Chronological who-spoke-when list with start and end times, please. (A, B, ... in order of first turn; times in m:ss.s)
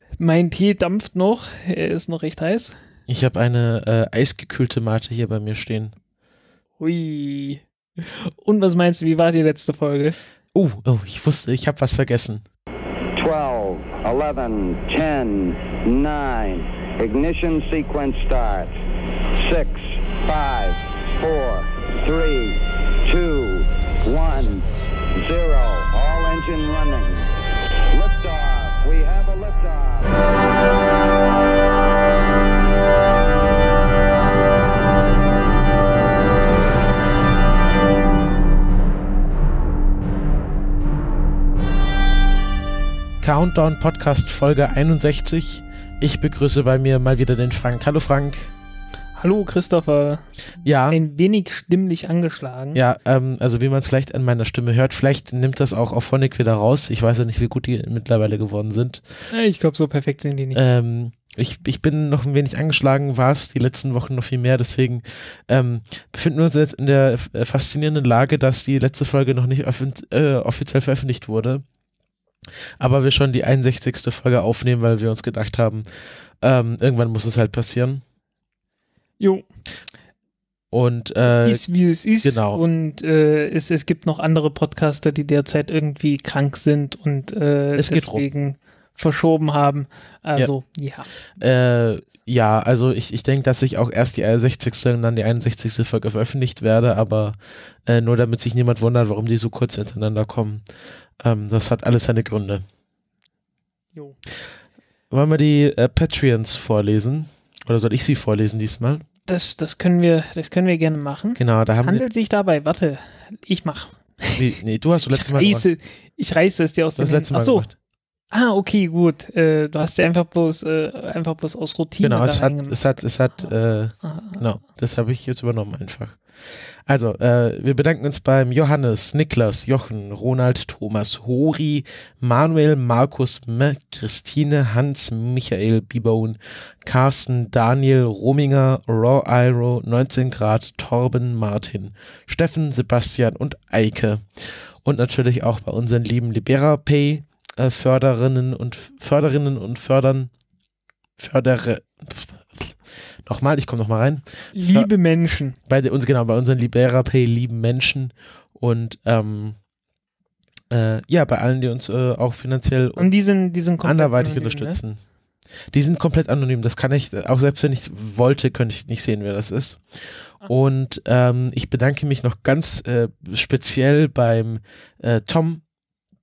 0:00.2-0:02.8 A
0:03.1-0:05.9 B
0:06.8-0:10.2 A
0:10.5-0:12.4 B
0:13.1-0:18.7 C
0:19.4-0:27.3 C
0:27.9-0:30.2 C
0:43.2-0:48.5 B
0:49.2-0:50.3 A
0:50.6-0:51.0 B
0:50.9-0:52.8 A
0:52.7-0:59.0 B
0:59.3-1:00.6 A
1:00.5-1:11.6 B
1:12.8-1:15.8 B
1:16.4-1:18.0 B
1:19.2-1:19.4 A
1:20.7-1:21.6 B
1:21.2-1:31.1 A
1:22.2-1:22.6 B
1:27.8-1:28.2 B
1:31.4-1:40.6 B
1:41.2-1:42.6 B
1:45.1-1:49.0 B
1:49.3-1:54.4 A
1:51.4-1:52.0 B
1:54.4-1:55.7 B
1:55.1-1:57.7 A
1:57.0-1:57.7 B
1:58.3-2:02.8 A
2:02.0-2:30.3 B
2:04.0-2:04.4 A
2:31.2-2:34.9 B
2:34.5-2:35.6 A
2:35.7-2:39.6 B
2:40.7-2:43.1 B
2:43.0-2:44.8 A
2:43.8-2:45.0 B
2:45.7-2:55.6 B